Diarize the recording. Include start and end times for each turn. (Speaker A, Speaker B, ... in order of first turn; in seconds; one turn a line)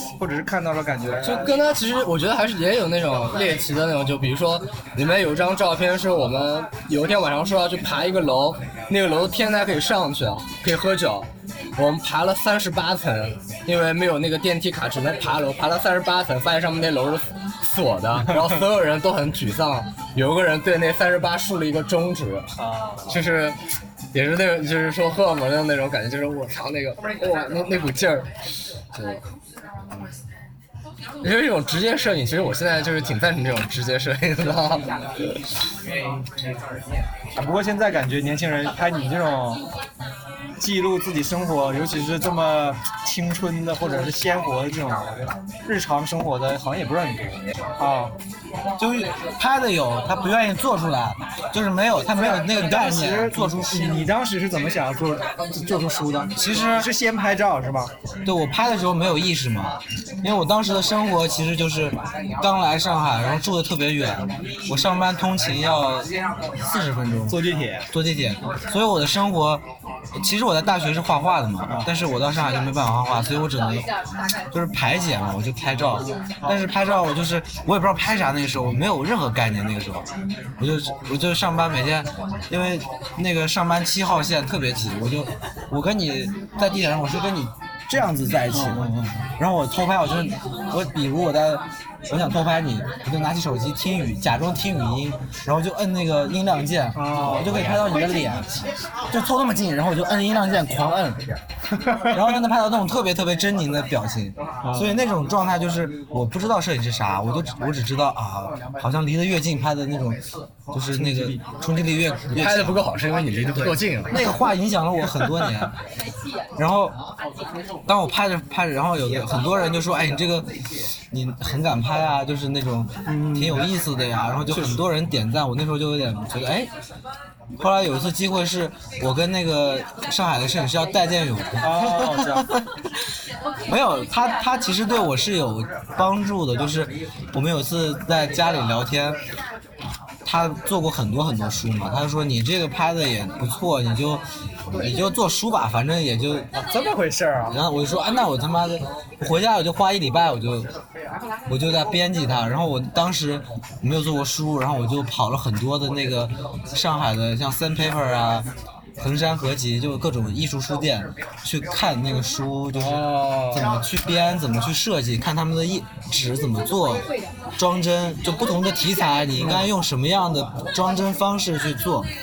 Speaker A: 0.2-1.6
Speaker B: 1.2-22.5
Speaker A: 22.6-23.1
Speaker B: 23.1-23.6
Speaker B: 24.1-28.3
Speaker B: 28.9-29.2
Speaker B: 31.2-35.4
Speaker A: 37.4-39.6
Speaker A: 40.6-48.2
Speaker C: 48.8-54.0
Speaker A: 52.1-57.9
Speaker C: 56.4-56.9
Speaker C: 58.2-67.4
Speaker A: 67.3-67.9
Speaker C: 67.9-69.6
Speaker C: 70.2-73.9
Speaker C: 74.5-80.1
Speaker C: 80.6-98.5
Speaker A: 88.5-89.2
Speaker A: 96.9-98.3
Speaker C: 99.1-101.3
Speaker A: 101.9-102.2
Speaker C: 102.1-112.9
Speaker A: 104.6-105.0
Speaker A: 110.9-111.4
Speaker B: 112.3-114.3
Speaker C: 114.1-115.8
Speaker C: 116.6-117.0
Speaker C: 117.9-120.5
Speaker C: 121.1-126.7
Speaker A: 123.1-123.7
Speaker A: 124.5-124.8
Speaker C: 127.6-132.7
Speaker A: 131.6-132.5
Speaker C: 133.7-139.2
Speaker C: 140.2-146.5
Speaker A: 146.5-147.6
Speaker C: 147.5-150.7
Speaker C: 151.5-158.5
Speaker C: 159.0-172.1
Speaker A: 162.8-163.6
Speaker A: 169.4-169.7